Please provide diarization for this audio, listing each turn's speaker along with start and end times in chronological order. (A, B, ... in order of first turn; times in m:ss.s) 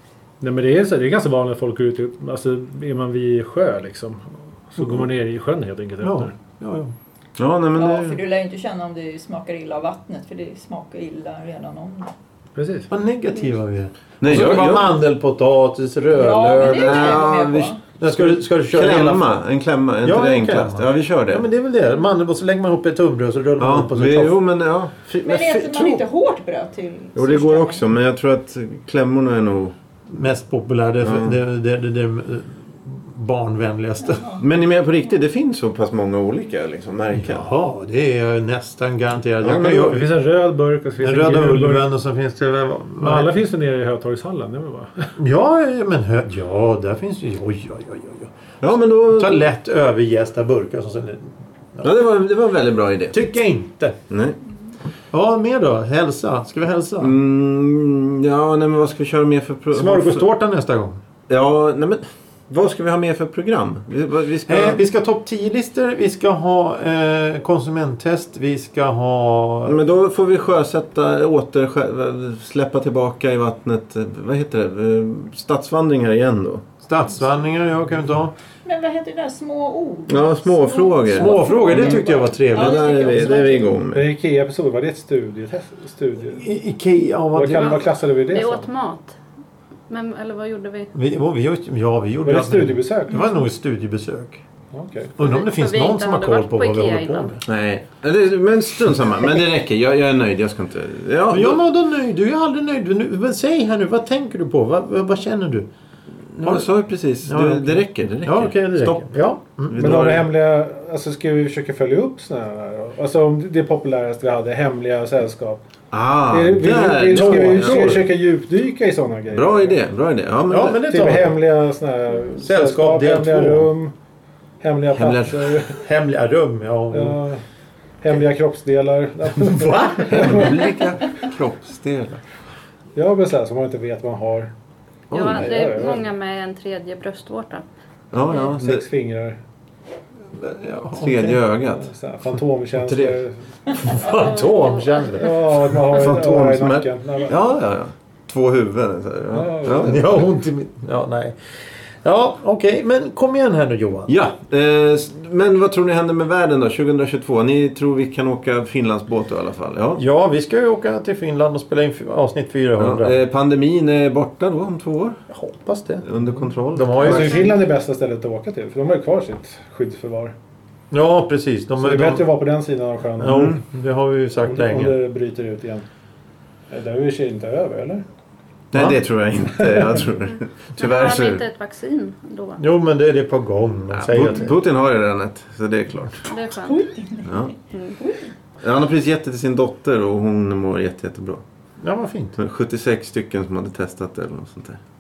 0:00.4-0:06.4 A
0:06.0-0:06.9 B
0:07.4-0:08.2 C
0:07.8-0:12.1 D
0:12.6-0:12.9 A
0:12.9-0:17.3 B
0:14.2-0:15.0 C
0:16.1-0:17.8 D
0:16.6-0:21.5 C
0:18.0-0:19.3 B
0:20.0-0:24.4 B
0:23.6-0:26.0 C
0:25.3-0:27.9 D
0:27.2-0:29.8 C
0:30.1-0:34.2 B
0:31.0-0:31.4 C
0:34.0-0:34.4 D
0:34.4-0:37.5 C
0:37.1-0:40.1 B
0:39.4-0:40.0 C
0:39.8-0:41.9 A
0:41.0-0:43.3 B
0:43.0-0:45.1 A
0:45.2-0:51.9 B
0:48.6-0:49.4 C
0:51.8-0:53.2 C
0:53.1-0:54.0 B
0:54.1-0:54.4 C
0:55.1-0:57.2 B
0:57.0-1:00.3 C
0:59.7-1:01.0 B
1:01.3-1:04.8 C
1:04.5-1:09.8 B
1:09.7-1:16.7 C
1:16.8-1:18.4 B
1:18.6-1:23.8 D
1:20.1-1:22.0 C
1:21.1-1:23.5 B
1:22.5-1:24.1 C
1:23.9-1:26.5 A
1:26.4-1:27.9 B
1:27.3-1:28.7 A
1:27.6-1:29.2 E
1:29.9-1:30.9 E
1:30.9-1:34.4 B
1:32.2-1:33.2 A
1:34.7-1:35.1 A
1:35.2-1:37.4 B
1:35.2-1:37.4 E
1:37.5-1:41.6 C
1:41.3-1:45.7 B
1:46.3-1:49.0 C
1:46.4-1:46.7 B
1:47.2-1:50.0 B
1:49.7-1:50.3 C
1:49.8-1:55.6 A
1:55.9-1:58.0 C
1:56.3-1:59.8 A
1:57.1-1:58.0 B
1:59.3-2:00.9 C
2:00.5-2:01.4 B
2:00.8-2:03.9 A
2:02.4-2:03.7 B
2:04.6-2:05.8 A
2:04.9-2:05.6 C
2:05.8-2:07.2 B
2:06.9-2:07.4 A
2:08.0-2:10.5 A
2:09.4-2:10.5 B
2:10.1-2:12.2 C
2:13.0-2:14.5 A
2:15.1-2:15.6 C
2:15.1-2:17.6 E
2:15.3-2:16.1 A
2:18.1-2:18.8 C
2:18.3-2:19.4 A
2:20.4-2:21.4 B
2:21.0-2:21.9 C
2:21.8-2:23.4 A
2:22.9-2:23.1 B
2:23.8-2:25.7 B
2:24.0-2:25.3 E
2:25.2-2:27.4 A
2:25.9-2:30.2 C
2:29.3-2:30.1 A
2:29.8-2:34.1 B
2:34.1-2:40.0 C
2:40.0-2:43.2 B
2:42.8-2:45.2 C
2:45.3-2:46.1 B
2:46.0-2:47.6 C
2:46.7-2:47.5 B
2:47.0-2:50.3 A
2:50.9-2:52.3 B
2:51.8-2:53.6 A
2:53.2-2:55.0 B
2:53.3-2:53.6 C
2:54.5-2:55.8 A
2:56.7-2:58.0 A
2:58.7-3:01.4 C
2:59.7-3:00.0 A
3:00.8-3:02.6 E
3:02.6-3:04.5 B
3:03.9-3:06.2 C
3:06.3-3:06.8 E
3:06.6-3:08.3 D
3:07.2-3:07.5 C
3:07.7-3:08.0 E
3:08.6-3:11.4 C
3:11.8-3:12.4 B
3:12.4-3:14.8 C